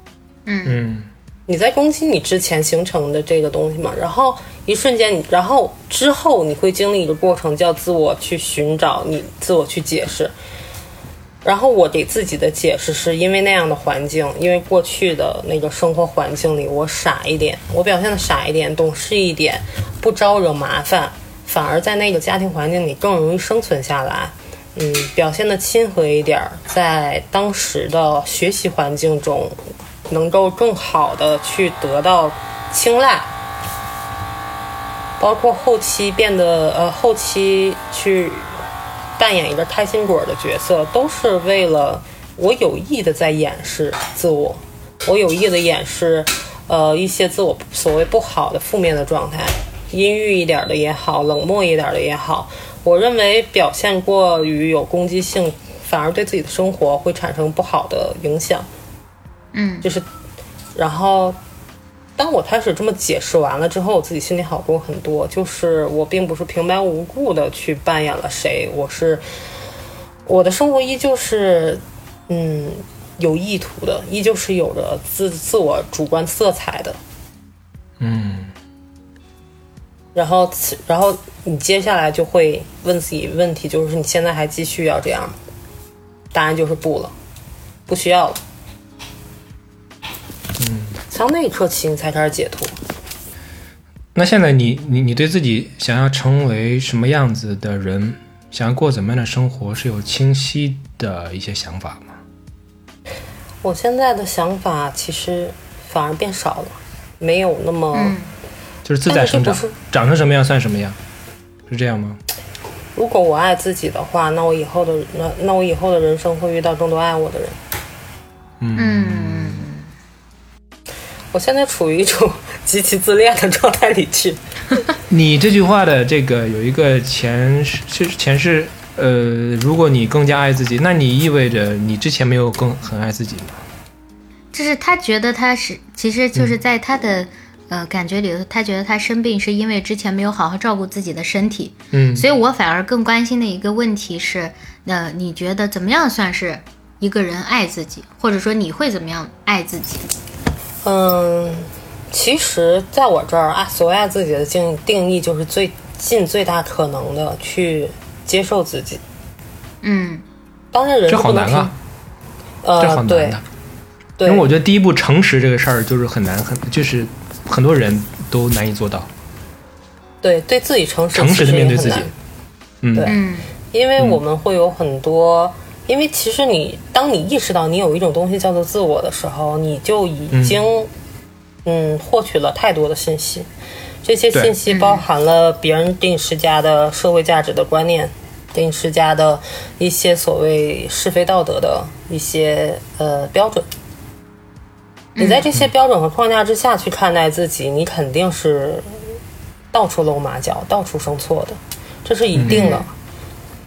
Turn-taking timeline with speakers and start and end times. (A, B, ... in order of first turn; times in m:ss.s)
0:00.5-0:00.8 A
0:00.7-0:01.1 B
0:01.5-0:10.3 C
0:11.4-0:33.3 C
0:35.2-0:38.6 C
0:39.2-0:58.7 C
0:59.5-0:59.9 A
1:00.8-1:01.4 C
1:02.2-1:09.2 C
1:10.3-1:17.0 C
1:18.0-1:18.5 B
1:20.2-1:25.4 C
1:26.3-1:27.1 C
1:27.9-1:28.4 C
1:30.6-1:31.0 B
1:31.1-1:32.8 C
1:34.2-1:42.2 B
1:43.6-1:48.2 C
1:47.9-1:48.3 A
1:48.8-1:51.0 B
1:49.1-1:49.8 C
1:51.7-1:52.2 B
1:53.0-1:57.6 C
1:58.6-1:59.6 B
1:58.8-1:59.9 A
2:01.3-2:04.4 C
2:05.1-2:13.6 B
2:14.5-2:30.1 A
2:21.9-2:22.3 B
2:30.8-2:39.0 C
2:39.8-2:40.2 A
2:40.7-2:41.7 C
2:41.1-2:41.7 B
2:42.6-2:43.4 C
2:42.8-2:43.4 B
2:44.2-2:44.5 C
2:44.2-2:49.1 B
2:50.2-2:52.1 C
2:51.1-2:52.1 B
2:52.8-2:53.1 B
2:53.0-2:53.2 C
2:53.1-2:53.5 A
2:53.7-3:00.9 C
3:00.3-3:00.6 B
3:01.6-3:03.5 C
3:04.0-3:13.7 C
3:04.7-3:05.0 A
3:15.2-3:15.5 A
3:15.2-3:19.0 C
3:19.7-3:22.9 C
3:22.4-3:22.6 B
3:22.5-3:22.9 A